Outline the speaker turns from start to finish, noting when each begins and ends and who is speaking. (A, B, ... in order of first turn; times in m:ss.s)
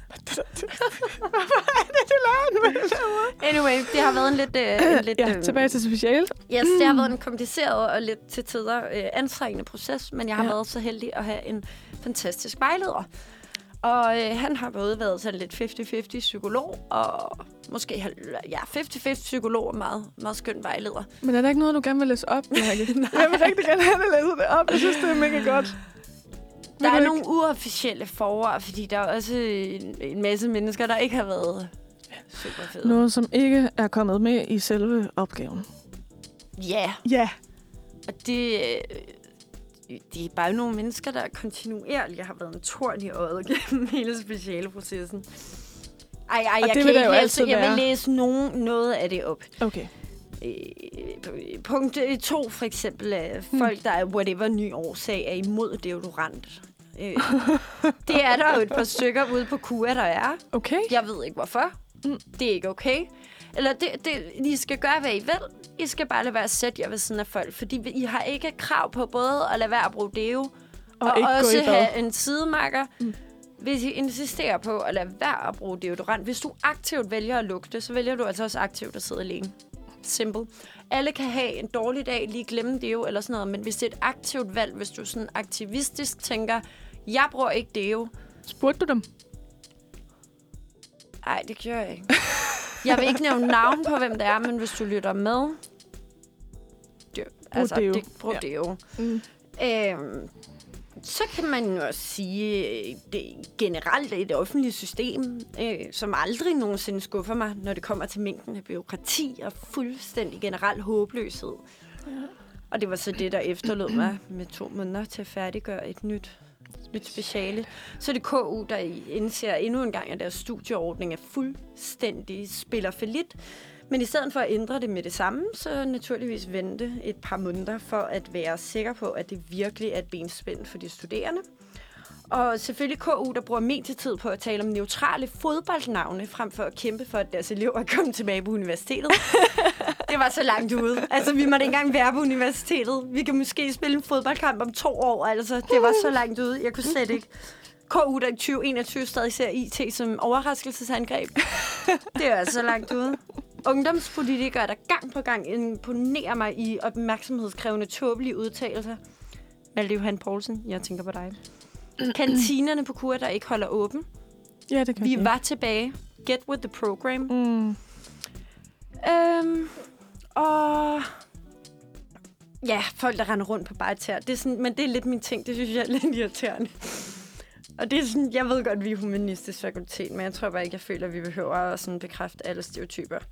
0:00.2-0:04.2 A
0:03.3-0:05.8 B
0:04.8-0:07.1 A
0:06.5-0:13.1 B
0:13.8-0:21.1 B
0:21.2-0:25.8 A
0:22.6-0:23.6 B
0:26.8-0:31.7 B
0:26.8-0:27.2 A
0:32.3-0:33.0 B
0:32.8-0:35.7 A
0:36.6-0:37.0 B
0:37.0-0:37.4 A
0:38.1-0:39.2 B
0:39.9-0:45.6 B
0:46.3-0:49.6 B
0:46.6-0:47.8 A
0:49.6-0:49.9 A
0:50.4-1:13.0 B
0:57.4-0:57.9 A
1:00.5-1:00.9 A
1:11.0-1:11.9 A
1:13.6-1:28.1 B
1:28.5-1:29.0 A
1:31.2-1:35.6 B
1:37.1-1:38.8 B
1:37.6-1:38.4 A
1:39.0-1:39.2 A
1:39.6-1:40.3 B
1:41.0-1:51.6 B
1:52.7-1:56.3 B
1:56.9-2:03.4 B
2:03.9-2:11.4 B
2:12.3-2:27.3 B
2:27.9-2:39.0 B
2:39.8-2:41.4 B
2:42.0-2:44.1 B
2:44.7-2:45.3 A
2:45.0-2:47.4 B
2:47.3-2:47.8 A
2:49.0-2:49.8 B
2:50.4-2:51.2 B
2:52.6-3:03.2 B